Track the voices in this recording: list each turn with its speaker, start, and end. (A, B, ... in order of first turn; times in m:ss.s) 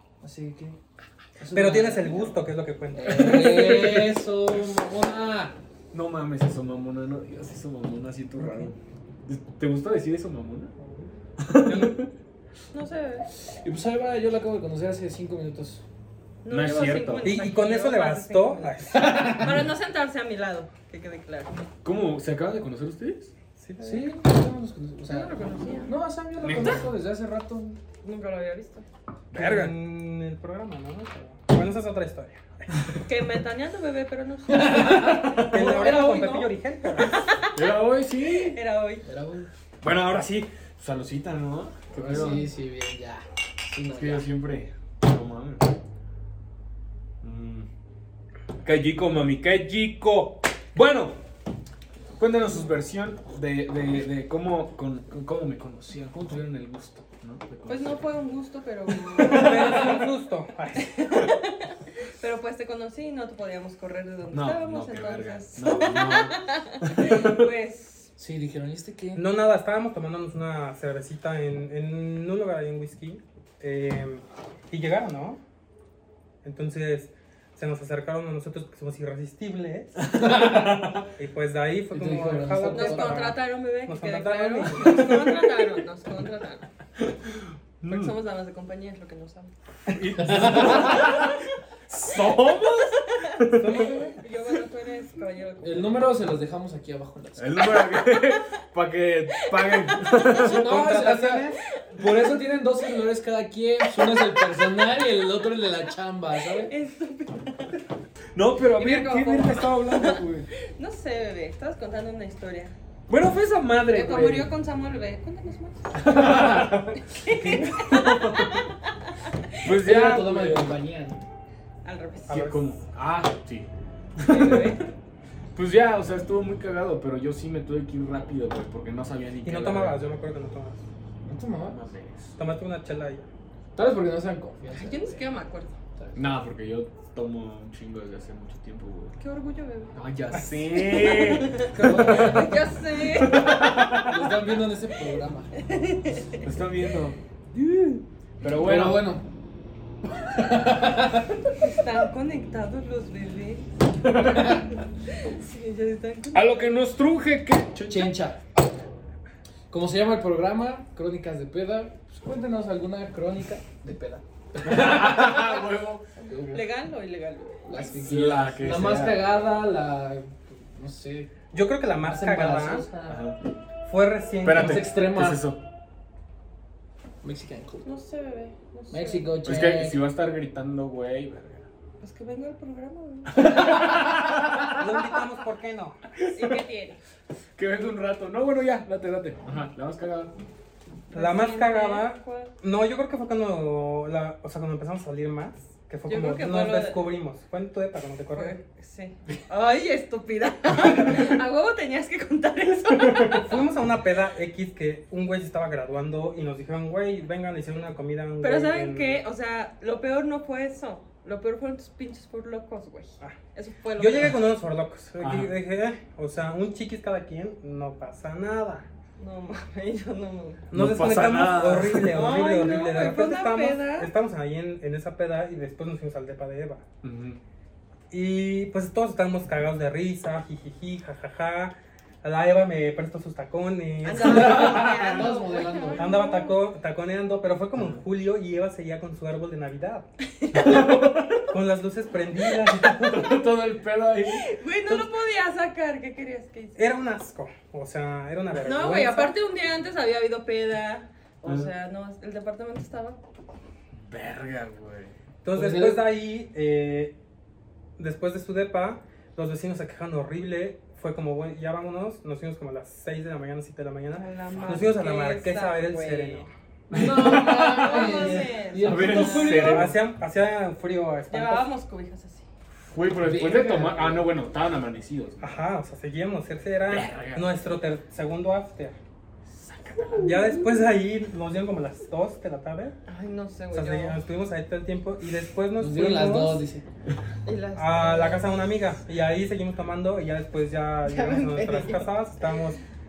0:00.2-0:00.8 A
0:01.4-0:02.4 A
0:01.5-0:03.7 B
0:02.9-0:05.6 A
0:03.1-0:04.2 C
0:05.9-0:10.7 C
0:11.4-0:12.1 C
0:11.6-0:12.0 B
0:12.7-0:13.3 D
0:13.5-0:15.8 A
0:16.4-0:21.5 D
0:16.5-0:17.4 C
0:17.2-0:19.4 B
0:18.9-0:19.5 A
0:21.8-0:23.3 C
0:23.6-0:24.1 B
0:23.8-0:25.3 A
0:25.1-0:25.9 D
0:25.8-0:27.8 A
0:26.4-0:26.9 C
0:28.0-0:28.8 D
0:29.3-0:29.7 C
0:29.3-0:32.8 B
0:33.0-0:35.1 D
0:34.5-0:36.6 A
0:34.8-0:35.8 C
0:35.4-0:37.2 B
0:37.0-0:39.0 D
0:37.5-0:38.6 C
0:39.0-0:39.5 A
0:39.8-0:42.5 C
0:41.9-0:44.3 A
0:43.9-0:45.7 C
0:47.2-0:47.7 C
0:48.6-0:51.2 C
0:52.2-0:58.1 C
0:57.7-1:00.0 D
0:59.0-0:59.8 C
0:59.2-1:01.0 B
1:00.8-1:08.1 D
1:04.3-1:07.5 C
1:08.2-1:09.2 A
1:09.1-1:15.4 B
1:16.4-1:20.2 B
1:20.0-1:21.1 C
1:20.1-1:20.9 A
1:21.1-1:25.2 B
1:21.9-1:23.3 A
1:22.7-1:26.7 D
1:24.7-1:25.6 C
1:27.8-1:28.1 C
1:27.8-1:29.5 D
1:29.9-1:34.0 C
1:30.2-1:31.0 A
1:30.5-1:31.4 D
1:33.2-1:36.1 D
1:33.5-1:34.2 B
1:35.6-1:37.9 A
1:37.4-1:40.8 C
1:38.0-1:38.3 D
1:39.4-1:40.5 D
1:40.2-1:46.7 A
1:40.6-1:41.6 B
1:43.9-1:44.8 D
1:46.6-1:47.8 D
1:48.3-1:50.5 C
1:48.7-1:52.8 D
1:53.1-1:54.5 C
1:53.9-1:55.9 D
1:55.9-1:58.7 C
1:57.0-1:58.7 D
1:57.3-1:57.9 B
1:59.6-2:00.7 C
1:59.8-2:01.2 A
2:01.8-2:02.3 D
2:02.3-2:02.8 B
2:02.3-2:04.8 C
2:04.2-2:04.9 D
2:05.6-2:10.1 C
2:09.4-2:10.8 B
2:11.2-2:11.8 A
2:11.6-2:12.4 C
2:12.4-2:13.3 B
2:13.8-2:15.3 A
2:14.7-2:15.8 D
2:16.0-2:16.2 A
2:16.1-2:19.1 C
2:19.2-2:19.9 D
2:19.9-2:22.5 C
2:20.3-2:22.4 B
2:20.8-2:23.8 D
2:21.8-2:22.6 A
2:23.0-2:24.4 C
2:24.0-2:25.5 A
2:25.6-2:26.4 D
2:26.4-2:27.2 C
2:28.4-2:29.2 C
2:28.6-2:29.3 A
2:30.3-2:31.5 A
2:31.6-2:33.6 D
2:34.0-2:34.6 C
2:34.3-2:34.6 A
2:35.1-2:36.8 D
2:36.3-2:38.2 C
2:37.8-2:38.4 A
2:39.7-2:45.6 A
2:44.6-2:46.6 C
2:46.2-2:46.6 A
2:46.5-2:47.6 D
2:47.6-2:51.3 A
2:47.8-2:49.4 C
2:51.5-2:52.9 B
2:52.0-2:53.2 A
2:53.1-2:53.4 C
2:53.9-2:54.9 B
2:54.4-2:55.6 C
2:54.5-2:55.4 A
2:57.2-2:57.9 A
2:57.8-2:59.6 D
2:58.9-3:00.0 A
2:59.4-3:01.7 C
3:02.0-3:03.9 D
3:03.4-3:04.8 C
3:04.8-3:06.0 B
3:06.2-3:06.5 C
3:06.3-3:07.0 D
3:07.6-3:10.3 C
3:11.1-3:12.5 D
3:11.1-3:18.6 B
3:16.1-3:17.1 D
3:18.3-3:23.5 D
3:23.1-3:23.4 C
3:23.4-3:29.2 B
3:28.4-3:34.4 D
3:34.0-3:38.8 B
3:35.2-3:35.5 C
3:39.2-3:40.7 D
3:40.7-3:46.8 B
3:40.7-3:42.4 C
3:42.0-3:44.1 D
3:47.0-3:47.4 C
3:48.1-3:55.1 B
3:54.0-3:56.5 D
3:54.2-3:56.2 A
3:56.0-4:00.0 B
4:00.5-4:01.5 C
4:01.5-4:03.4 B
4:02.9-4:04.5 C
4:04.2-4:06.8 D
4:04.8-4:05.1 B
4:06.8-4:09.3 B
4:08.6-4:13.2 D
4:11.4-4:11.7 C
4:14.0-4:15.1 C
4:15.4-4:17.1 B
4:15.5-4:16.1 A
4:18.0-4:26.5 B
4:24.2-4:26.5 D
4:26.9-4:29.7 A
4:26.9-4:30.0 C
4:27.2-4:29.9 D
4:28.1-4:31.7 B
4:31.3-4:32.4 D
4:32.9-4:35.6 C
4:33.1-4:34.3 A
4:35.4-4:39.0 B
4:36.9-4:37.6 C
4:39.4-4:40.7 C
4:40.2-4:43.0 B
4:43.1-4:44.2 D
4:43.7-4:46.6 B
4:45.8-4:46.8 A
4:47.4-4:48.6 D
4:47.8-4:52.8 B
4:51.0-4:52.2 D